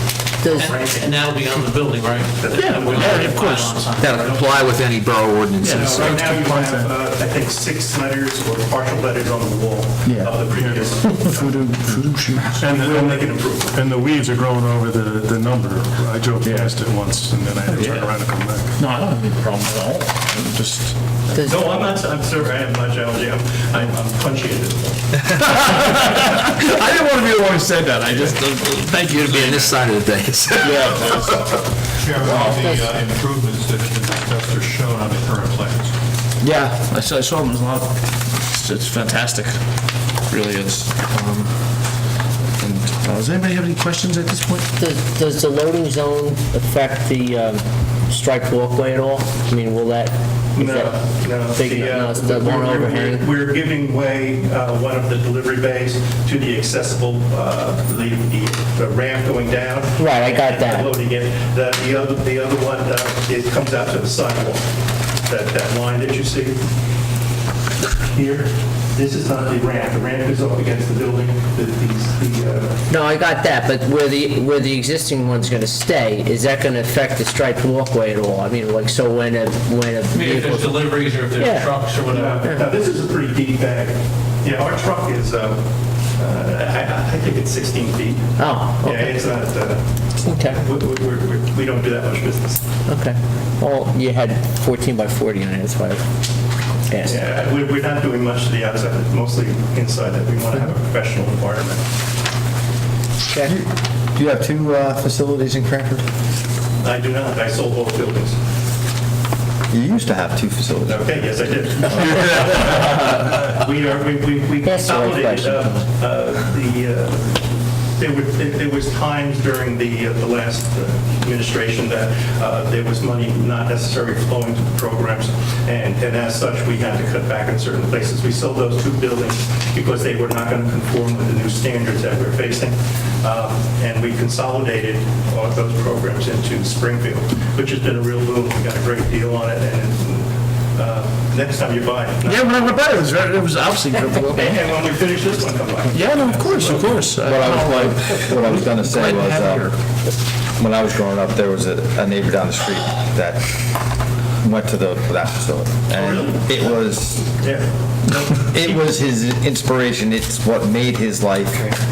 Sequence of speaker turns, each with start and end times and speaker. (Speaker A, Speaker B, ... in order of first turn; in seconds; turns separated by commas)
Speaker A: 0.4-0.8, Speaker B: 0.5-1.4, Speaker C: 0.5-4.5, Speaker B: 2.3-3.7, Speaker D: 2.5-3.8, Speaker E: 4.0-6.2, Speaker D: 5.6-6.9, Speaker B: 5.7-11.7, Speaker D: 10.0-12.9, Speaker F: 10.5-10.8, Speaker B: 12.6-13.8, Speaker G: 12.6-12.9, Speaker F: 12.9-14.3, Speaker G: 13.7-18.6, Speaker F: 14.8-15.3, Speaker D: 16.4-16.8, Speaker F: 17.1-17.4, Speaker D: 17.6-18.1, Speaker D: 18.8-20.9, Speaker A: 21.3-21.9, Speaker B: 21.3-25.0, Speaker D: 25.4-29.8, Speaker E: 29.0-31.4, Speaker D: 30.6-31.4, Speaker F: 31.9-35.9, Speaker A: 32.4-32.8, Speaker D: 36.4-39.6, Speaker D: 40.1-41.5, Speaker D: 42.6-44.7, Speaker A: 44.8-53.2, Speaker B: 50.5-64.6, Speaker A: 60.0-60.9, Speaker B: 65.2-66.6, Speaker B: 68.0-72.8, Speaker A: 72.9-81.8, Speaker C: 80.1-82.5, Speaker B: 82.0-89.9, Speaker A: 88.4-89.3, Speaker A: 90.2-90.6, Speaker B: 90.4-92.6, Speaker A: 92.9-96.0, Speaker A: 96.9-97.2, Speaker B: 97.0-101.8, Speaker A: 103.3-103.5, Speaker H: 103.4-106.1, Speaker B: 106.8-108.4, Speaker H: 109.7-111.2, Speaker B: 110.8-117.4, Speaker A: 114.6-115.8, Speaker B: 118.0-143.4, Speaker D: 142.2-144.7, Speaker B: 144.3-147.1, Speaker D: 145.9-149.7, Speaker H: 147.1-149.7, Speaker H: 150.6-153.6, Speaker H: 154.4-157.3, Speaker B: 155.9-158.9, Speaker H: 158.5-161.7